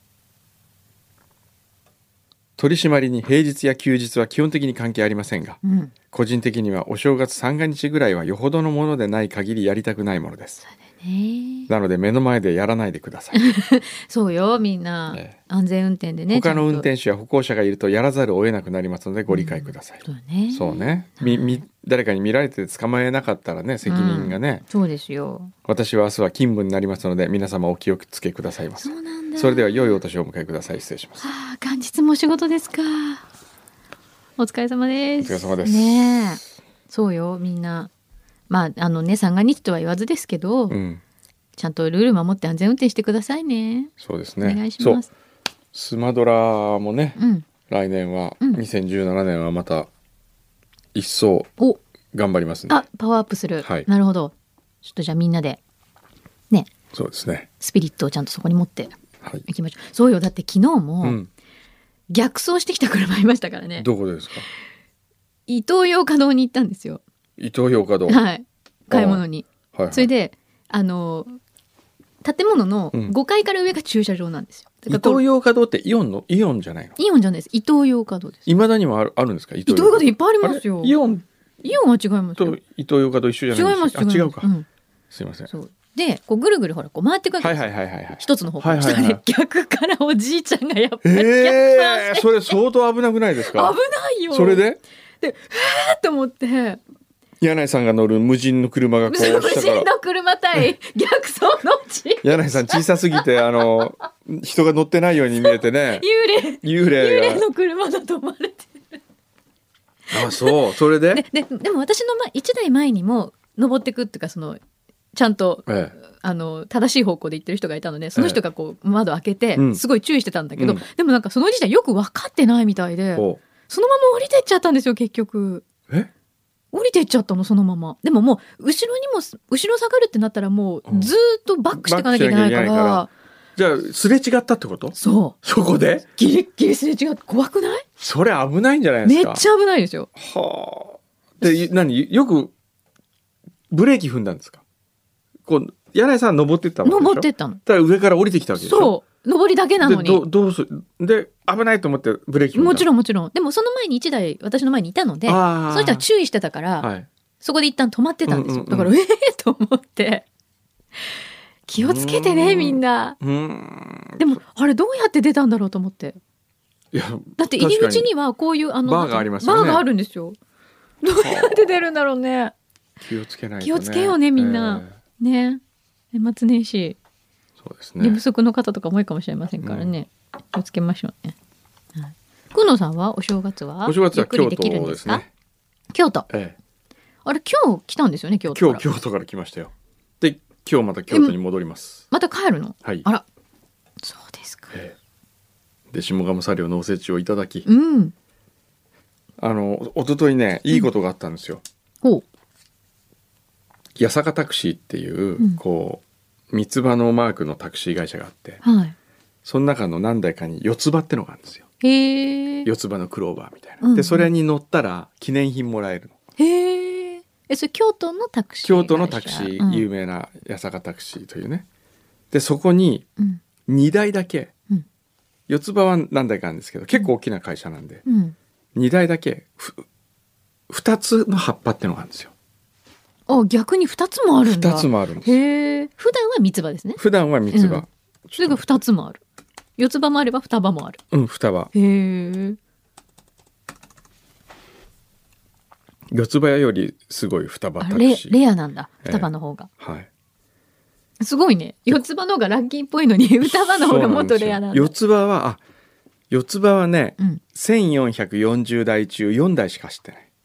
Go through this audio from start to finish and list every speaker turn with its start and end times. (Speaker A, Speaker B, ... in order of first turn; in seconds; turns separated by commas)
Speaker A: 2.6-10.6, Speaker B: 5.6-5.9, Speaker B: 10.7-11.7, Speaker A: 11.7-13.4, Speaker B: 13.3-16.9, Speaker A: 15.1-15.4, Speaker A: 16.3-24.6, Speaker B: 19.3-21.6, Speaker B: 23.9-25.5, Speaker A: 25.6-31.3, Speaker B: 28.8-30.0, Speaker B: 31.2-33.2, Speaker B: 34.4-37.9, Speaker A: 35.2-36.4, Speaker B: 38.5-40.8, Speaker A: 40.7-41.0, Speaker B: 41.6-45.1, Speaker A: 44.0-45.0, Speaker A: 45.7-49.9, Speaker B: 47.2-47.5, Speaker A: 50.9-51.5, Speaker A: 52.1-52.8, Speaker B: 52.7-55.6, Speaker A: 53.6-53.9, Speaker A: 56.9-57.5, Speaker B: 57.6-59.0, Speaker B: 59.5-61.2, Speaker A: 61.0-61.3, Speaker B: 62.1-63.9, Speaker A: 63.8-64.5, Speaker B: 65.5-67.0, Speaker A: 67.4-68.2, Speaker B: 68.1-71.4, Speaker A: 68.9-70.1, Speaker B: 72.2-75.2, Speaker A: 74.9-77.0, Speaker B: 77.0-78.5, Speaker A: 78.5-81.2, Speaker B: 79.7-81.0, Speaker B: 81.6-82.6, Speaker A: 82.4-84.5, Speaker B: 83.5-84.7, Speaker A: 85.1-85.5, Speaker B: 85.5-92.6, Speaker A: 87.4-89.2, Speaker A: 91.0-93.8, Speaker B: 93.5-94.7, Speaker A: 94.3-94.8, Speaker B: 95.2-96.8, Speaker A: 97.4-99.9, Speaker B: 99.1-103.2, Speaker A: 102.2-106.1, Speaker B: 105.4-109.0, Speaker A: 106.6-107.5, Speaker A: 110.1-111.2, Speaker B: 110.1-110.6, Speaker B: 111.1-114.6, Speaker B: 115.1-125.7, Speaker A: 115.7-116.0, Speaker A: 118.2-118.4, Speaker A: 119.6-119.8, Speaker A: 120.6-120.8, Speaker A: 123.2-123.4, Speaker B: 126.7-133.1, Speaker A: 130.9-131.1, Speaker A: 131.8-136.1, Speaker B: 135.0-135.4, Speaker B: 136.1-137.9, Speaker A: 138.0-139.4, Speaker B: 139.0-140.1, Speaker A: 140.2-142.5, Speaker A: 143.7-144.6, Speaker A: 145.4-148.9, Speaker B: 146.8-147.6, Speaker B: 148.6-150.2, Speaker A: 149.8-152.9, Speaker B: 152.5-156.9, Speaker A: 155.3-156.1, Speaker A: 156.8-157.1, Speaker B: 157.4-160.2, Speaker A: 158.3-158.9, Speaker B: 161.7-163.2, Speaker A: 161.8-164.4, Speaker B: 164.2-166.2, Speaker A: 166.9-168.1, Speaker B: 167.4-170.4, Speaker A: 168.9-169.9, Speaker B: 171.0-172.5, Speaker A: 171.2-171.8, Speaker A: 173.0-175.0, Speaker B: 173.6-175.6, Speaker B: 176.1-177.0, Speaker A: 177.6-178.2, Speaker B: 178.0-181.3, Speaker A: 179.6-179.9, Speaker B: 182.0-185.2, Speaker A: 183.8-185.3, Speaker B: 185.9-186.3, Speaker A: 186.3-186.6, Speaker B: 187.2-188.9, Speaker A: 188.5-192.1, Speaker B: 191.1-191.4, Speaker B: 192.1-193.2, Speaker B: 194.0-194.8, Speaker A: 195.9-197.7, Speaker B: 197.7-198.1, Speaker A: 199.4-201.6, Speaker A: 204.0-208.6, Speaker B: 208.6-208.9, Speaker A: 209.4-211.6, Speaker B: 211.8-212.7, Speaker A: 212.7-216.2, Speaker B: 213.8-214.3, Speaker B: 216.4-219.9, Speaker A: 218.6-221.7, Speaker A: 222.3-223.1, Speaker A: 223.7-224.5, Speaker A: 225.5-228.0, Speaker B: 228.1-228.4, Speaker A: 228.8-229.8, Speaker A: 230.7-232.3, Speaker B: 233.3-237.0, Speaker A: 234.4-235.4, Speaker A: 237.0-238.7, Speaker B: 237.5-237.9, Speaker B: 238.4-239.2, Speaker B: 239.8-241.0, Speaker A: 241.1-241.7, Speaker B: 241.7-242.6, Speaker A: 246.1-248.3, Speaker B: 247.8-249.7, Speaker A: 249.0-250.1, Speaker B: 251.2-254.9, Speaker A: 253.4-255.6, Speaker A: 256.3-260.3